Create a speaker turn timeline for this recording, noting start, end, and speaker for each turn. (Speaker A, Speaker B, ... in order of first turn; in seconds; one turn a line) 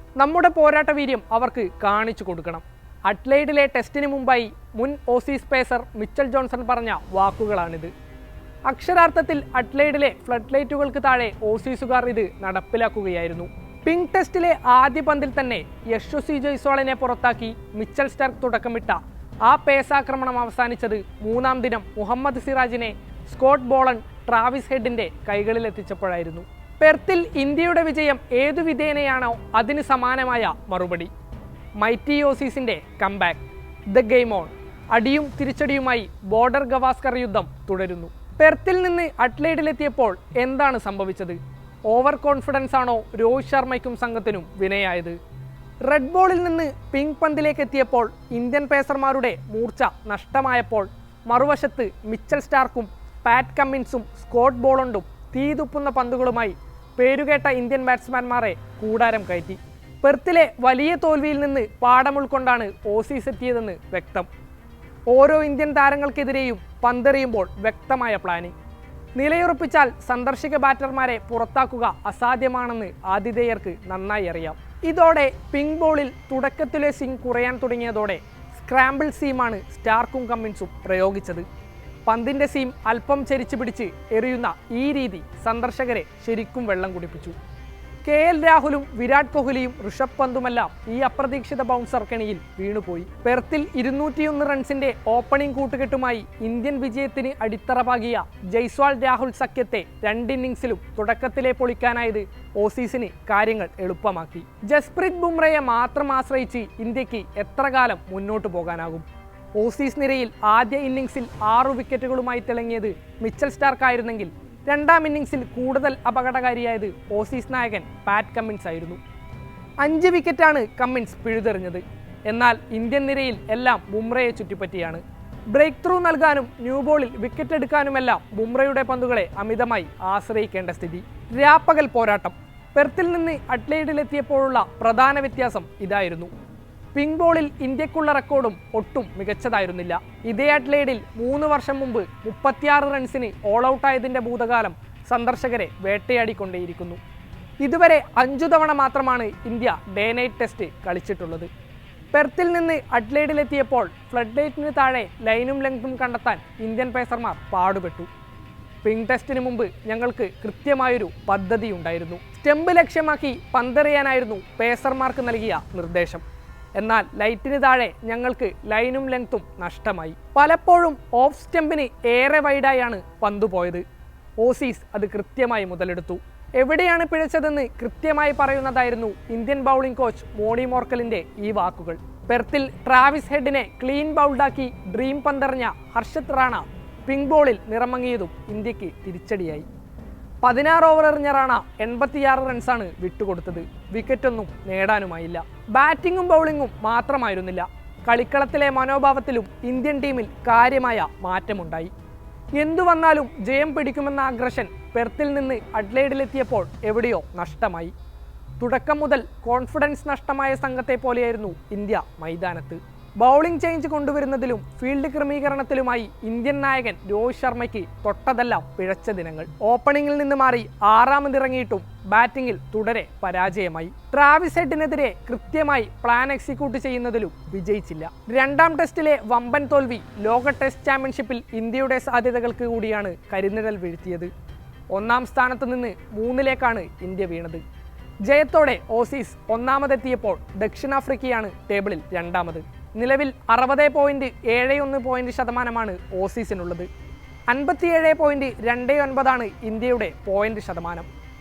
Speaker A: 0.2-7.9
Speaker A: 8.7-31.1
Speaker A: 31.8-45.2
Speaker A: 45.8-64.3
Speaker A: 65.1-68.5
Speaker A: 69.2-81.5
Speaker A: 82.1-87.4
Speaker A: 88.0-119.0
Speaker A: 119.8-136.3
Speaker A: 136.9-147.0
Speaker A: 147.6-151.5
Speaker A: 152.1-158.1
Speaker A: 158.8-166.2
Speaker A: 166.7-173.8
Speaker A: 174.4-189.7
Speaker A: 190.4-201.9
Speaker A: 202.6-207.9
Speaker A: 208.6-234.3
Speaker A: 234.9-237.6
Speaker A: 238.2-246.9
Speaker A: 247.5-251.1